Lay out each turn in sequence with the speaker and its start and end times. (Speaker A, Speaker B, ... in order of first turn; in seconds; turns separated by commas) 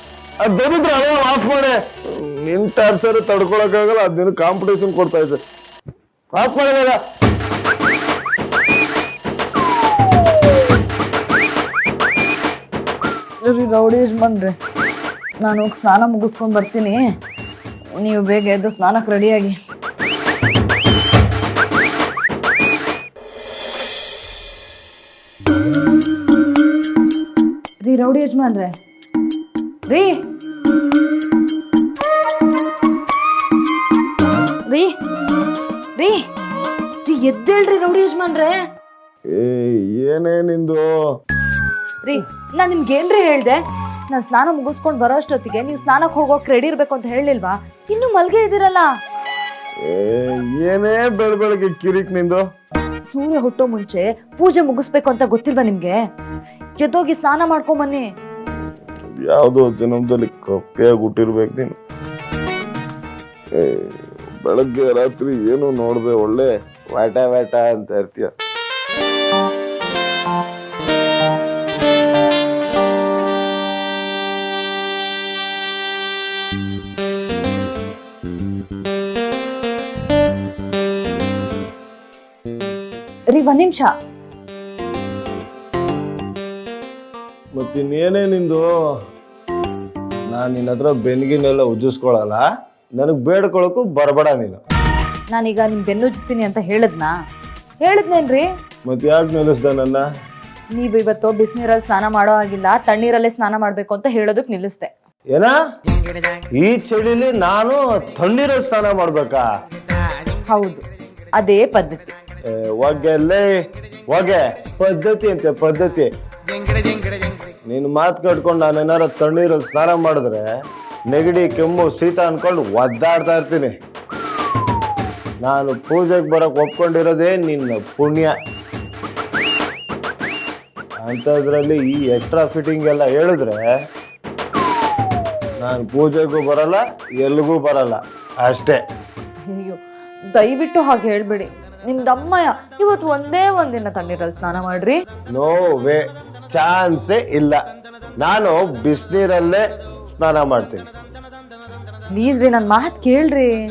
Speaker A: 0.4-5.4, Speaker A: 6.3-7.0, Speaker B: 13.4-14.5, Speaker B: 15.4-17.0, Speaker B: 18.0-19.6, Speaker B: 27.8-28.7, Speaker B: 29.9-30.1, Speaker B: 37.0-38.6, Speaker A: 39.3-40.9, Speaker B: 42.1-48.9, Speaker A: 49.9-52.4, Speaker B: 53.1-56.0, Speaker B: 56.8-58.0, Speaker A: 59.2-61.8, Speaker A: 63.6-68.3, Speaker B: 83.3-83.9, Speaker A: 87.6-88.7, Speaker A: 90.3-92.4, Speaker A: 93.0-94.6, Speaker B: 95.3-97.1, Speaker B: 97.8-98.5, Speaker A: 98.9-100.0, Speaker B: 100.8-104.9, Speaker A: 106.6-109.4, Speaker B: 110.5-110.8, Speaker B: 111.4-112.2, Speaker A: 112.5-113.5, Speaker A: 114.1-116.1, Speaker A: 117.7-120.5, Speaker A: 121.1-123.7, Speaker A: 125.4-128.3, Speaker A: 131.0-133.6, Speaker A: 135.6-138.8, Speaker B: 139.5-139.8, Speaker B: 140.3-145.0, Speaker A: 145.3-147.6, Speaker A: 148.2-150.9, Speaker B: 152.1-153.5